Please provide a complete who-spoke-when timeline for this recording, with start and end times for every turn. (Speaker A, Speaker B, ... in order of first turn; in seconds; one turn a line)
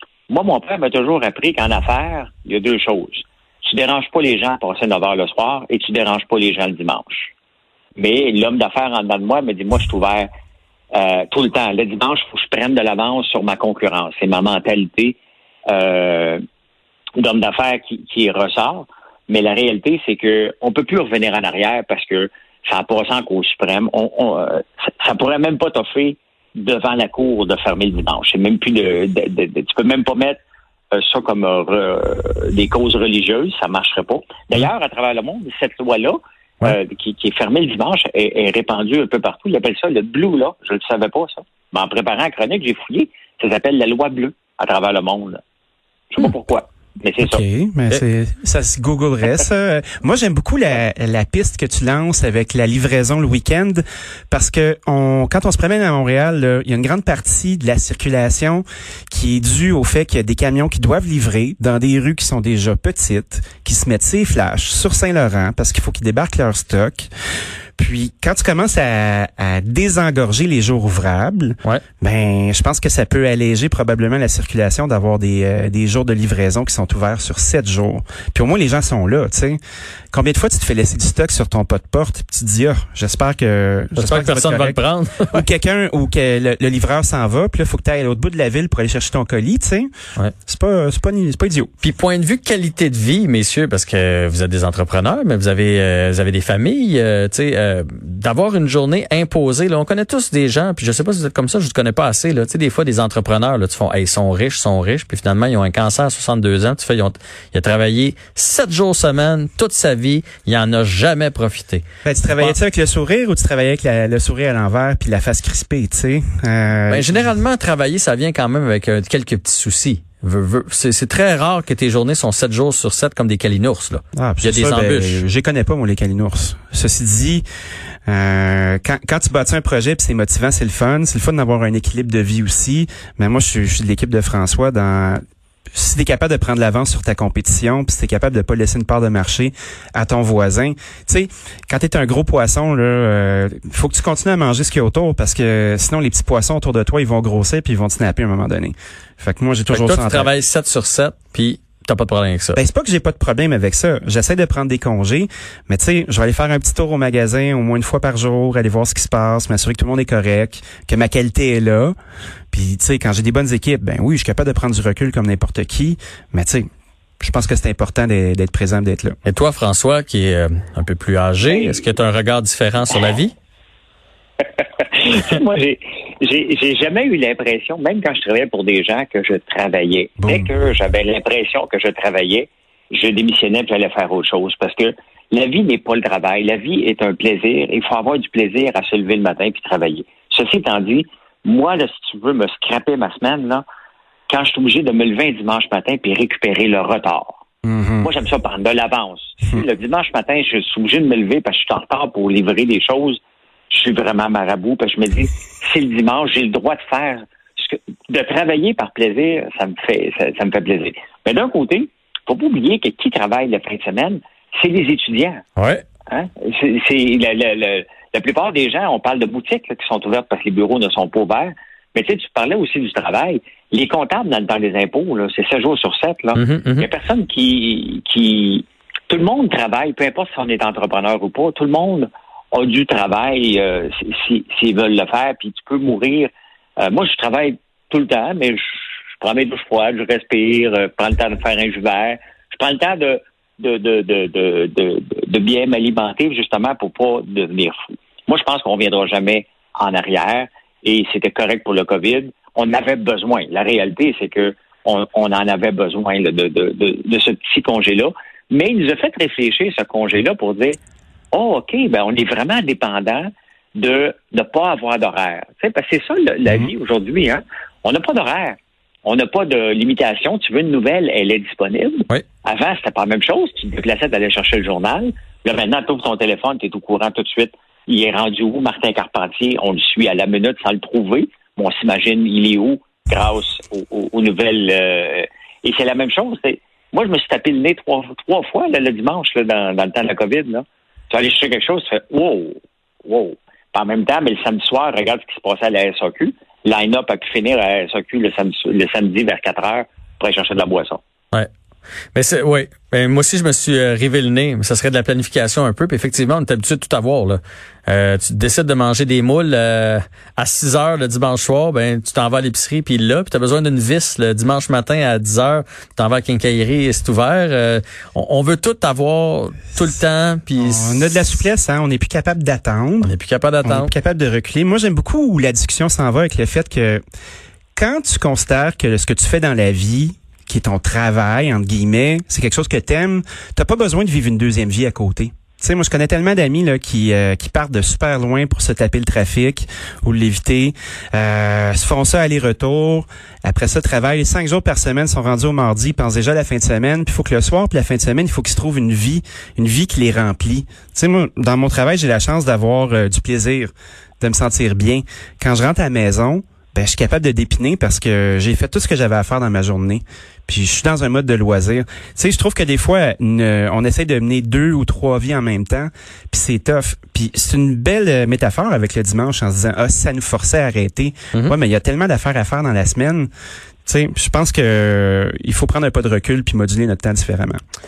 Speaker A: 0.3-7.3
Speaker A: 8.0-10.3
Speaker A: 10.9-15.2
Speaker A: 15.7-16.4
Speaker A: 17.2-30.4
Speaker A: 30.9-45.4
Speaker A: 46.1-47.4
Speaker B: 47.2-67.1
Speaker B: 67.8-79.6
Speaker B: 80.1-84.8
Speaker C: 84.0-85.4
Speaker B: 85.3-89.9
Speaker B: 90.5-91.7
Speaker C: 91.8-111.8
Speaker B: 112.0-117.3
Speaker C: 116.9-125.2
Speaker B: 124.1-127.4
Speaker B: 128.1-135.2
Speaker B: 135.7-150.3
Speaker C: 149.7-152.6
Speaker B: 152.5-161.9
Speaker B: 162.5-166.7
Speaker B: 167.2-169.2
Speaker C: 169.2-173.3
Speaker A: 171.5-171.8
Speaker A: 174.6-193.6
Speaker B: 180.2-180.5
Speaker A: 194.3-197.4
Speaker B: 197.6-198.1
Speaker A: 198.0-203.2
Speaker A: 203.7-215.4
Speaker C: 215.6-215.8
Speaker A: 216.1-260.8
Speaker C: 226.3-226.9
Speaker A: 261.3-301.0
Speaker C: 302.1-321.2
Speaker B: 320.6-323.1
Speaker C: 323.0-323.9
Speaker B: 323.6-327.0
Speaker B: 327.8-373.3
Speaker B: 373.9-377.6